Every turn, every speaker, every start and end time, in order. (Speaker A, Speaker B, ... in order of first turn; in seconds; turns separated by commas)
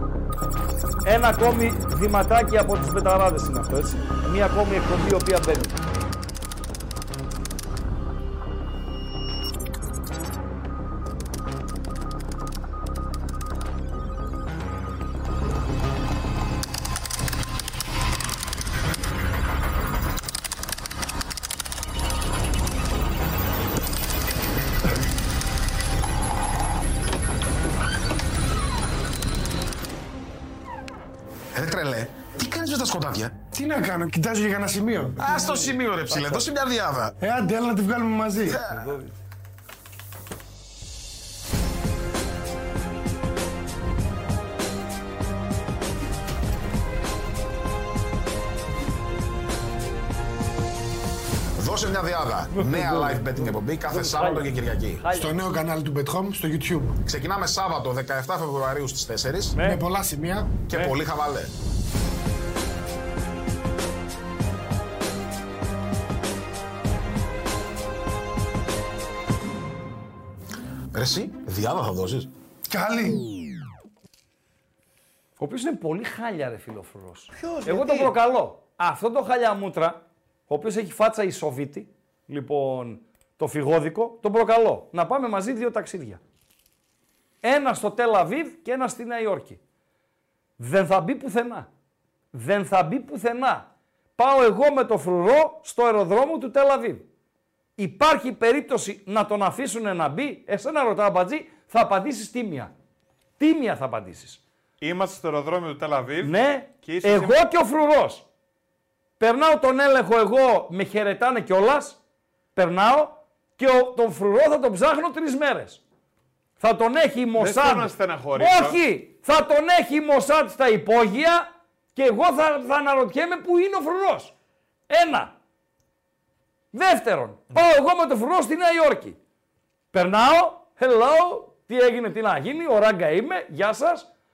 Speaker A: 1.1-5.8, Speaker B: 31.6-33.4, Speaker C: 33.5-35.8, Speaker B: 35.2-37.1, Speaker A: 36.1-36.5, Speaker C: 37.2-38.6, Speaker B: 38.5-39.0, Speaker A: 38.5-39.1, Speaker B: 51.6-55.1, Speaker A: 52.5-55.4, Speaker C: 55.1-57.0, Speaker B: 57.0-59.6, Speaker A: 59.5-59.8, Speaker C: 59.6-60.6, Speaker B: 60.6-61.5, Speaker B: 70.9-72.3, Speaker C: 72.7-73.3, Speaker A: 75.4-86.2, Speaker D: 77.4-78.2, Speaker A: 87.4-89.6, Speaker A: 90.6-91.7, Speaker A: 92.3-97.1, Speaker A: 97.8-102.7, Speaker A: 103.4-104.4, Speaker D: 104.8-107.4, Speaker A: 106.2-108.3, Speaker A: 109.2-112.0, Speaker A: 112.5-115.8, Speaker A: 116.6-124.3, Speaker D: 117.4-118.8, Speaker A: 124.9-125.3, Speaker A: 126.7-129.2, Speaker A: 129.9-134.1